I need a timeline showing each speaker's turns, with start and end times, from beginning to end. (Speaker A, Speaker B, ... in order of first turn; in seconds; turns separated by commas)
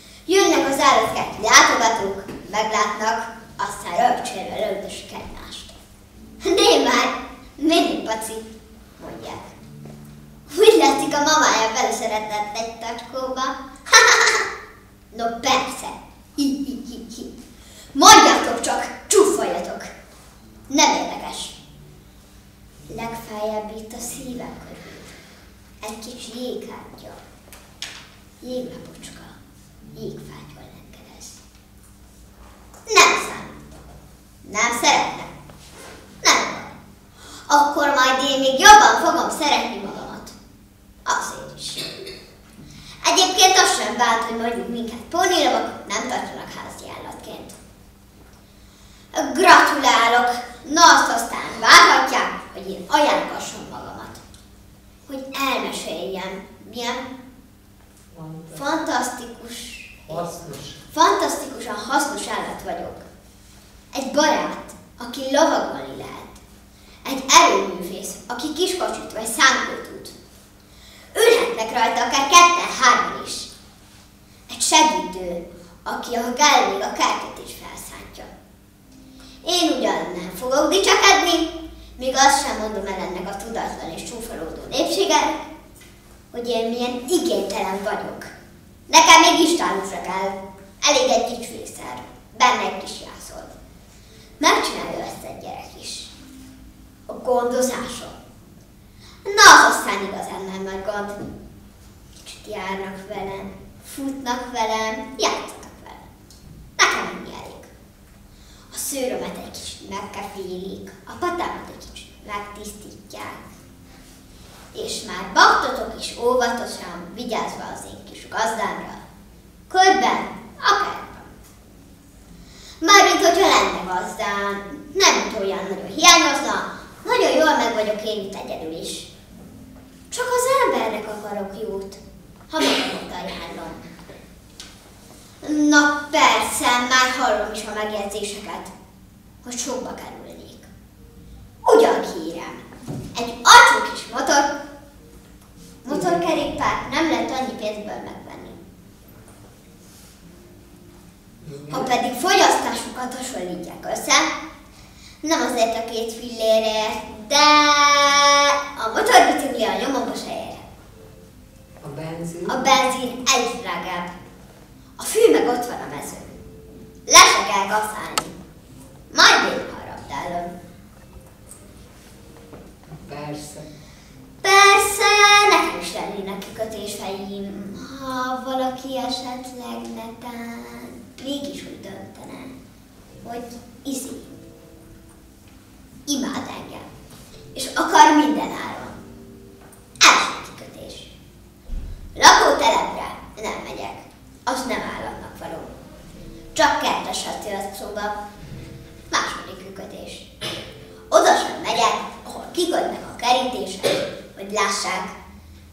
Speaker A: 0.3-5.8, Speaker A: 6.4-8.5, Speaker A: 9.0-9.6, Speaker A: 10.5-14.5, Speaker A: 15.1-17.3, Speaker A: 17.9-19.9, Speaker A: 20.7-21.6, Speaker A: 22.9-25.1, Speaker A: 25.8-27.2, Speaker A: 28.4-29.4, Speaker A: 29.9-31.4, Speaker A: 32.9-33.6, Speaker A: 34.4-35.3, Speaker A: 36.2-36.8, Speaker A: 37.5-40.4, Speaker A: 41.0-41.9, Speaker A: 43.0-47.6, Speaker A: 49.1-54.2, Speaker A: 55.1-57.1, Speaker B: 58.1-58.7, Speaker A: 58.5-60.3, Speaker B: 60.1-60.8, Speaker A: 60.9-63.1, Speaker A: 63.9-66.4, Speaker A: 67.0-70.2, Speaker A: 71.1-73.5, Speaker A: 74.5-78.3, Speaker A: 79.4-85.4, Speaker A: 86.3-88.3, Speaker A: 88.9-93.5, Speaker A: 94.4-96.1, Speaker A: 97.1-98.2, Speaker A: 99.2-101.2, Speaker A: 102.2-106.0, Speaker A: 106.8-107.7, Speaker A: 108.7-113.5, Speaker A: 114.7-119.0, Speaker A: 119.7-121.3, Speaker A: 122.8-129.1, Speaker A: 130.1-133.8, Speaker A: 135.4-138.7, Speaker A: 139.4-140.7, Speaker A: 141.6-142.6, Speaker A: 143.1-144.5, Speaker A: 145.8-148.6, Speaker B: 145.9-146.2, Speaker B: 151.4-151.9, Speaker A: 151.7-154.3, Speaker A: 155.2-160.6, Speaker B: 161.8-162.7, Speaker A: 162.5-164.1, Speaker A: 165.0-166.3, Speaker A: 167.1-168.4, Speaker A: 169.1-170.5, Speaker B: 172.9-173.7, Speaker A: 174.4-182.5, Speaker A: 183.2-184.3, Speaker A: 186.1-186.9, Speaker A: 187.6-189.0, Speaker A: 190.0-191.1, Speaker A: 192.2-195.7, Speaker A: 196.5-198.2, Speaker A: 199.1-200.3, Speaker A: 201.1-205.2